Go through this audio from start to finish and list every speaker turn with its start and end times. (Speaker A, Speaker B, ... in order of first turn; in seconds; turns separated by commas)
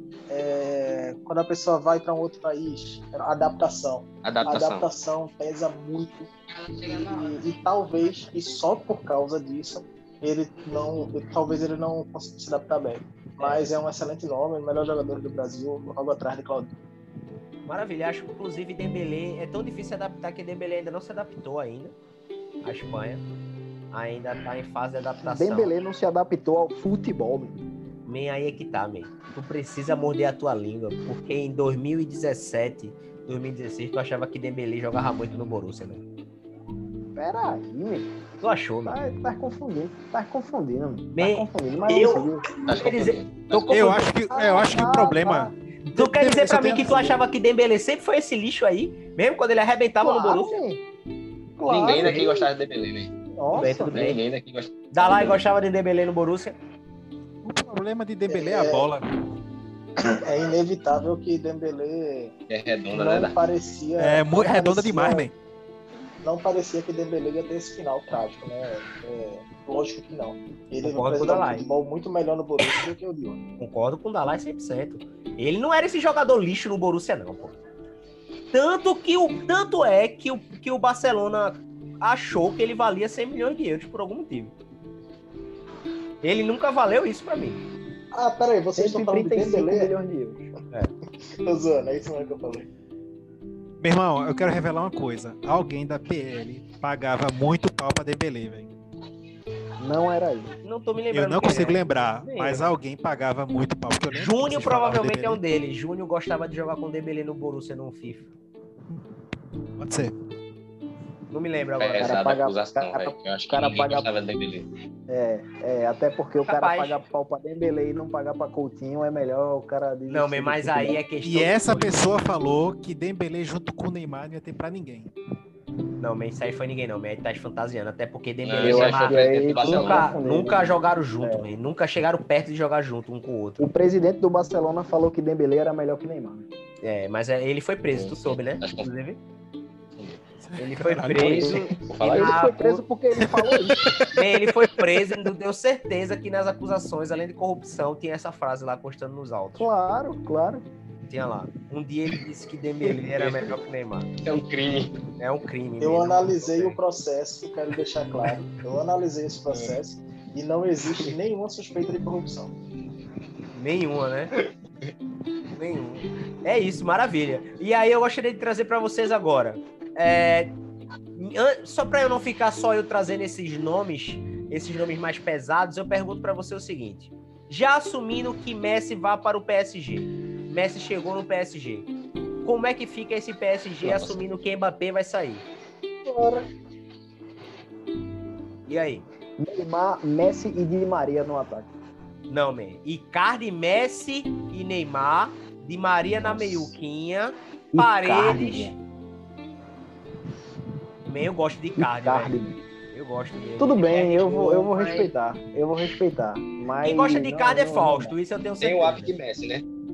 Speaker A: 0.3-6.3, Speaker B: 4.2-4.9, Speaker A: 6.8-16.7, Speaker C: 13.4-13.7, Speaker C: 17.7-21.9, Speaker C: 22.6-23.2, Speaker C: 23.9-25.7, Speaker D: 25.2-27.6, Speaker C: 28.1-36.0, Speaker D: 37.1-38.1, Speaker C: 38.4-39.0, Speaker D: 38.9-42.4, Speaker C: 41.1-44.1, Speaker B: 42.6-44.0, Speaker E: 43.7-47.2, Speaker D: 44.3-45.5, Speaker C: 45.9-50.6, Speaker D: 50.0-50.8, Speaker D: 51.6-52.5, Speaker B: 51.6-55.4, Speaker C: 52.0-52.3, Speaker D: 53.4-54.0, Speaker C: 53.6-54.2, Speaker C: 54.9-56.5, Speaker E: 57.4-59.1, Speaker A: 58.3-58.9, Speaker A: 60.0-62.3, Speaker B: 62.5-63.4, Speaker A: 62.9-65.3, Speaker E: 64.0-65.3, Speaker A: 66.2-73.4, Speaker C: 70.8-71.7, Speaker C: 73.6-77.5, Speaker C: 78.5-84.5, Speaker C: 86.2-87.6, Speaker A: 88.1-89.9, Speaker D: 88.8-90.5, Speaker A: 91.3-92.7, Speaker E: 93.8-98.7, Speaker D: 99.8-100.5, Speaker C: 100.6-102.7, Speaker E: 101.1-105.4, Speaker C: 104.1-108.3, Speaker E: 109.8-110.1, Speaker C: 111.3-112.2, Speaker B: 111.8-114.7, Speaker D: 112.0-114.1, Speaker D: 115.1-121.0, Speaker C: 116.4-117.0, Speaker C: 120.1-122.2, Speaker E: 121.2-125.1, Speaker C: 126.0-133.7, Speaker B: 128.4-130.1, Speaker D: 128.6-131.5, Speaker D: 133.6-136.5, Speaker C: 136.8-139.2, Speaker B: 137.9-138.9, Speaker E: 140.4-141.5, Speaker C: 140.6-142.8, Speaker D: 141.2-143.9, Speaker B: 141.8-142.4, Speaker E: 143.2-145.0, Speaker C: 144.2-149.7, Speaker D: 149.6-150.6, Speaker C: 151.1-154.1, Speaker B: 153.1-153.6, Speaker B: 154.2-155.0, Speaker C: 155.2-156.8, Speaker A: 155.8-162.5, Speaker B: 159.5-159.8, Speaker C: 163.5-164.3, Speaker C: 165.5-170.5, Speaker C: 171.2-181.9, Speaker C: 182.4-185.4, Speaker B: 183.8-184.2, Speaker A: 186.0-186.5, Speaker C: 188.7-189.0, Speaker D: 189.4-191.7, Speaker C: 192.3-198.7, Speaker B: 196.2-196.7, Speaker D: 197.7-198.7, Speaker C: 201.1-202.3, Speaker D: 201.8-202.6, Speaker C: 202.9-205.1, Speaker D: 203.6-208.1, Speaker C: 206.8-209.1, Speaker B: 208.6-209.6